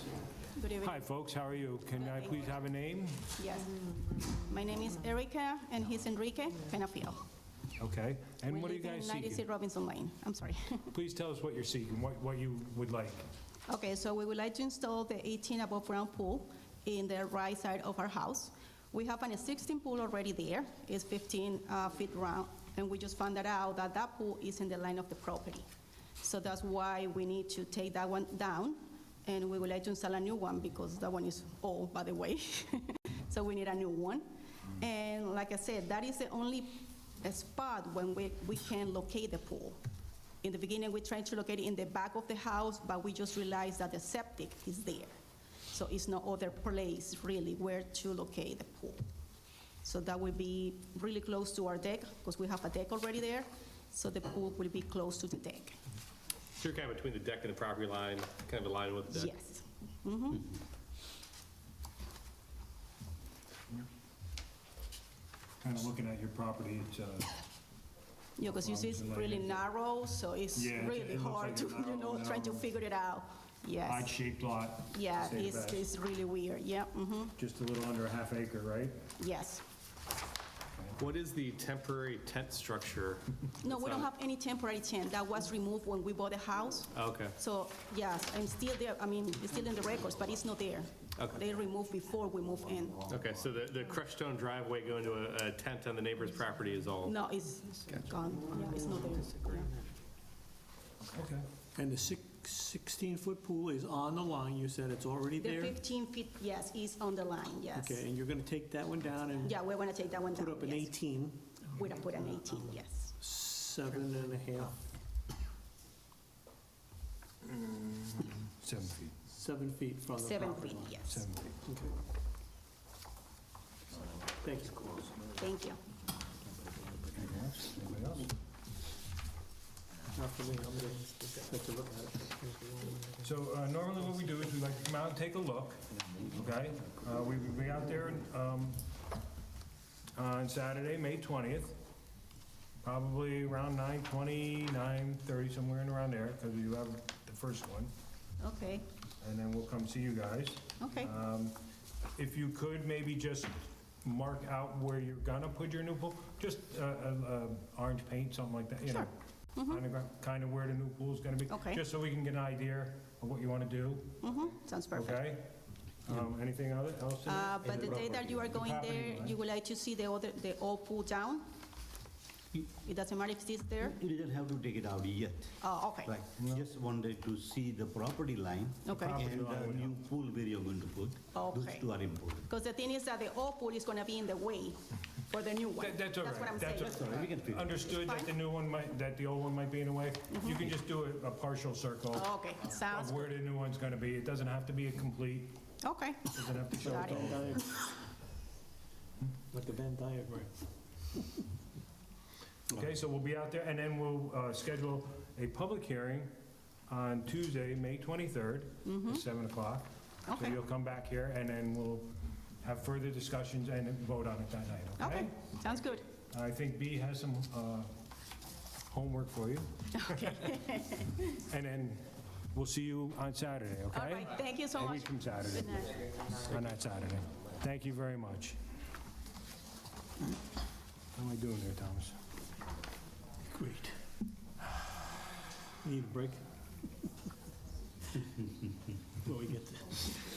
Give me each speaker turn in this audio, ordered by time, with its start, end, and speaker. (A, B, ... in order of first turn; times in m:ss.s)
0:00.6-0:01.0 A
0:00.8-0:03.4 B
0:02.0-0:02.4 A
0:03.4-0:07.2 A
0:07.8-0:09.4 B
0:08.4-0:10.9 A
0:10.9-0:13.2 B
0:13.7-0:25.7 A
0:26.2-0:39.8 A
0:40.4-0:45.1 A
0:45.7-0:49.0 A
0:49.8-0:55.8 A
0:56.6-0:59.3 C
0:59.1-1:00.5 A
1:05.6-1:07.3 B
1:08.4-1:14.1 A
1:08.4-1:09.7 B
1:10.5-1:12.7 B
1:13.8-1:15.8 B
1:14.9-1:17.3 A
1:17.4-1:19.0 B
1:19.2-1:19.6 A
1:21.0-1:24.1 C
1:23.6-1:33.1 A
1:26.9-1:27.4 C
1:31.2-1:31.4 C
1:33.1-1:37.2 C
1:37.0-1:39.7 A
1:41.1-1:41.5 B
1:41.7-1:45.8 D
1:45.4-1:48.0 A
1:47.7-1:51.4 D
1:49.4-1:50.9 A
1:51.7-1:53.1 A
1:53.2-1:54.8 D
1:57.4-1:59.1 B
1:59.3-2:01.0 D
2:00.2-2:01.2 A
2:01.0-2:01.6 B
2:01.6-2:01.9 D
2:04.2-2:05.2 D
2:05.3-2:05.8 A
2:07.1-2:08.3 B
2:10.1-2:13.0 D
2:13.2-2:18.8 B
2:20.2-2:21.8 B
2:22.8-2:27.9 B
2:28.4-2:28.8 A
2:29.2-2:31.6 B
2:30.8-2:31.1 A
2:32.1-2:39.1 B
2:38.8-2:39.8 A
2:39.6-2:44.2 B
2:41.5-2:41.8 A
2:44.2-2:45.2 A
2:44.9-2:49.4 B
2:47.2-2:51.4 A
2:47.6-2:48.5 E
2:52.8-2:54.0 A
2:53.8-3:02.5 E
2:55.6-2:56.1 A
2:56.4-2:56.6 B
2:58.8-2:59.2 A
2:58.9-3:00.0 B
3:01.3-3:01.8 A
3:02.4-3:07.2 A
3:05.8-3:15.6 B
3:06.7-3:07.8 E
3:07.8-3:08.3 A
3:10.3-3:10.7 A
3:12.1-3:13.3 A
3:15.8-3:17.8 A
3:16.3-3:17.7 B
3:16.8-3:17.7 D
3:19.5-3:20.5 D
3:22.7-3:26.3 B
3:26.9-3:35.4 B
3:28.8-3:29.2 A
3:30.3-3:30.6 A
3:35.0-3:36.0 A
3:36.2-3:37.9 B
3:38.9-3:40.6 B
3:40.0-3:41.1 A
3:41.2-3:48.6 B
3:43.9-3:46.0 A
3:51.2-3:52.2 B
3:53.5-3:54.0 D
3:55.8-3:56.4 D
3:59.2-4:00.0 D